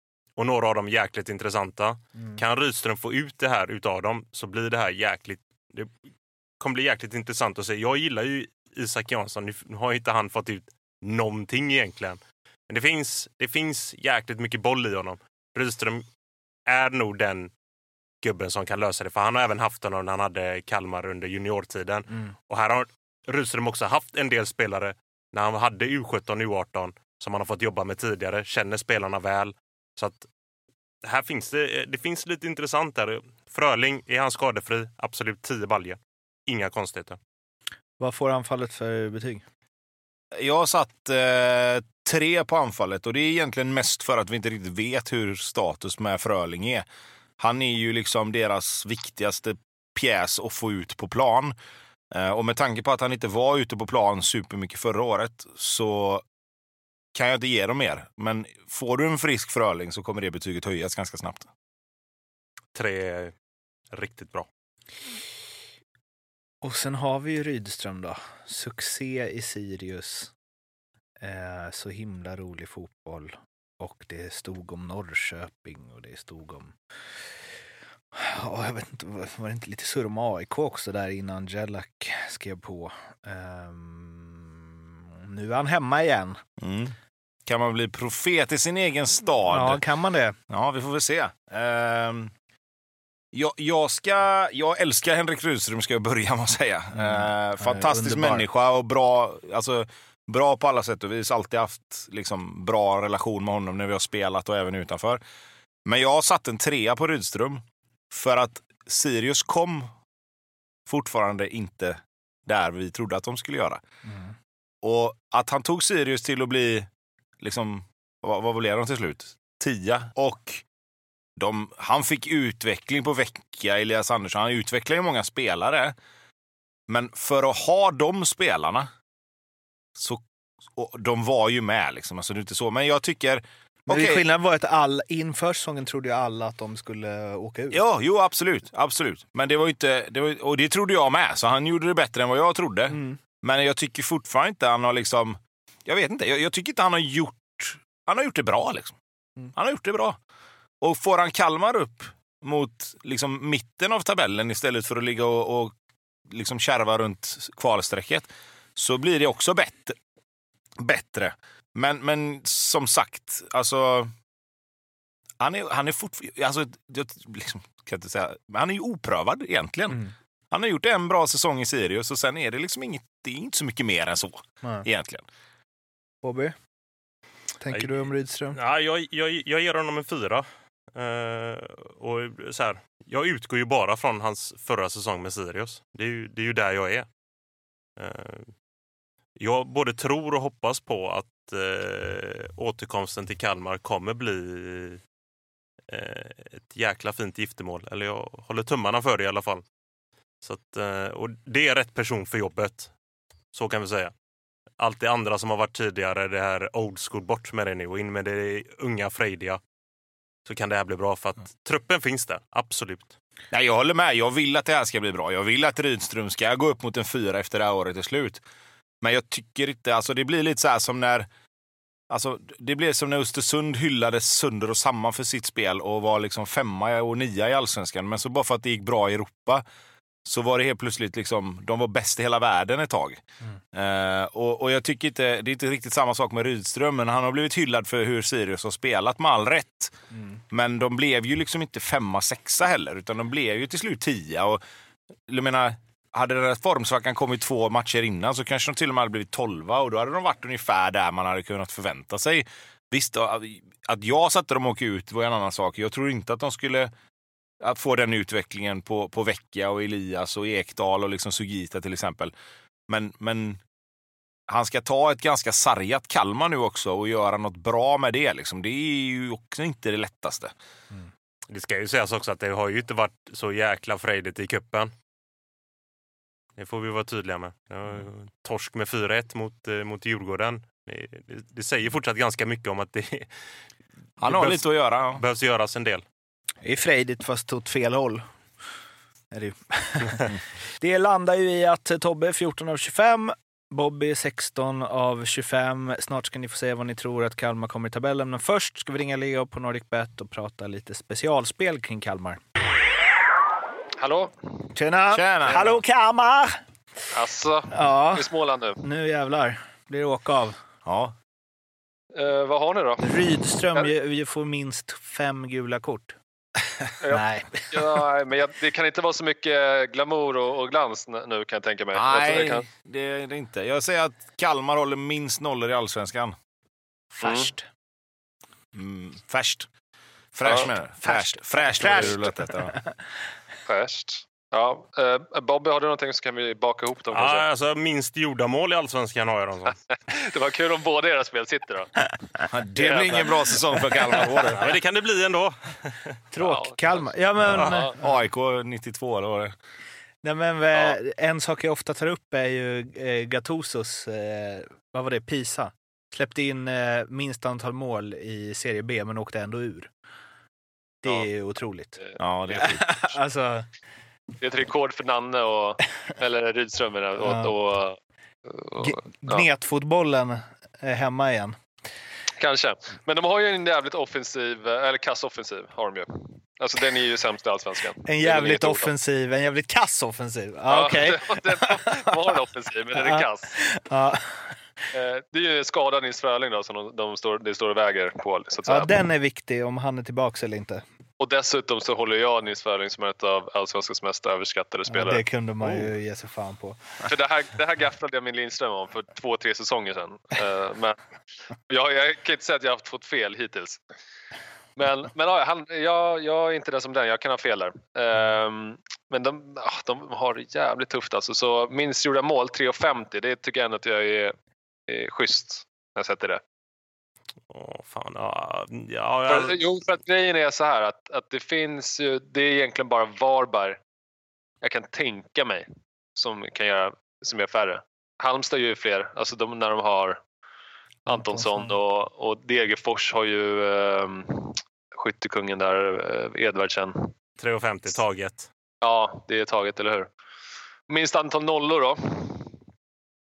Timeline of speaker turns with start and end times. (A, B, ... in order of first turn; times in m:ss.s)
0:00.4-0:05.9 A
0:06.6-0:16.1 A
0:16.7-0:17.5 A
0:18.2-0:30.3 A
0:31.0-0:37.2 A
0:38.0-0:39.4 B
0:40.4-0:46.8 C
0:47.4-0:51.6 C
0:52.1-0:56.2 C
0:57.1-1:01.5 C
1:02.8-1:03.3 A
1:03.9-1:04.5 A
1:06.6-1:10.3 B
1:11.2-1:16.8 B
1:18.1-1:26.4 B
1:26.6-1:29.8 C
1:29.5-1:30.4 B
1:30.5-1:32.3 C
1:33.3-1:45.2 C
1:37.0-1:38.5 B
1:45.8-1:49.9 C
1:50.9-1:53.8 C
1:54.1-1:54.3 B
1:54.8-1:56.9 C
1:57.4-2:00.6 C
2:01.4-2:06.0 C
2:06.9-2:08.9 C
2:10.0-2:10.2 C
2:10.8-2:14.2 C
2:13.9-2:17.8 B
2:17.7-2:29.0 C
2:22.9-2:23.2 B
2:29.5-2:30.2 C
2:30.8-2:35.7 C
2:36.3-2:40.0 C
2:40.8-2:44.1 C
2:45.4-2:55.3 C
2:56.2-2:56.5 B
2:57.6-2:58.6 B
2:58.5-3:07.1 A
3:08.0-3:08.5 A
3:09.4-3:15.0 A
3:15.9-3:19.6 A
3:20.4-3:22.9 A
3:23.5-3:24.1 A
3:24.8-3:29.6 A
3:30.5-3:33.2 A
3:33.5-3:38.4 C
3:39.0-3:41.3 C
3:42.1-3:49.6 C
3:50.2-3:53.2 C
3:53.7-3:59.9 C
4:00.5-4:04.6 C
4:05.3-4:16.9 C
4:17.6-4:22.3 C
4:22.9-4:23.6 C
4:24.5-4:30.5 C
4:31.5-4:34.9 A
4:36.6-4:43.3 A
4:44.2-4:45.2 C
4:44.2-4:46.0 A
4:46.6-4:48.2 B
4:49.3-5:02.4 B
5:04.0-5:04.4 D
5:04.8-5:06.6 B
5:05.1-5:05.8 C
5:07.1-5:08.8 D
5:07.7-5:08.3 B
5:08.8-5:10.6 B
5:10.8-5:11.2 C
5:12.1-5:13.1 D
5:13.0-5:16.2 B
5:17.0-5:22.7 D
5:17.1-5:18.0 B
5:21.9-5:26.4 C
5:27.1-5:27.7 B
5:27.2-5:27.5 D
5:28.7-5:29.7 C
5:30.3-5:32.8 C
5:30.4-5:30.7 D
5:31.0-5:32.9 B
5:33.7-5:37.5 D
5:37.1-5:39.8 A
5:40.1-5:44.2 D
5:42.5-5:44.7 C
5:44.4-5:46.2 A
5:46.3-5:48.1 B
5:46.4-5:47.9 D
5:47.4-5:49.5 C
5:50.2-5:59.9 B
6:01.0-6:02.0 B
6:02.2-6:03.2 C
6:02.5-6:03.7 B
6:04.4-6:09.5 D
6:07.2-6:07.5 B
6:08.8-6:11.6 B
6:12.4-6:18.9 D
6:18.0-6:22.3 B
6:20.7-6:23.5 D
6:23.0-6:24.5 B
6:24.9-6:29.0 D
6:28.7-6:30.8 B
6:31.2-6:35.2 D
6:34.9-6:36.8 B
6:37.0-6:41.0 D
6:41.7-6:43.8 D
6:44.8-6:54.3 D
6:54.9-6:56.4 D
6:57.5-6:59.6 A
6:59.3-7:03.8 D
7:04.6-7:10.2 D
7:11.1-7:17.1 D
7:11.3-7:11.7 B
7:17.4-7:18.5 A
7:18.8-7:20.1 D
7:20.9-7:22.5 D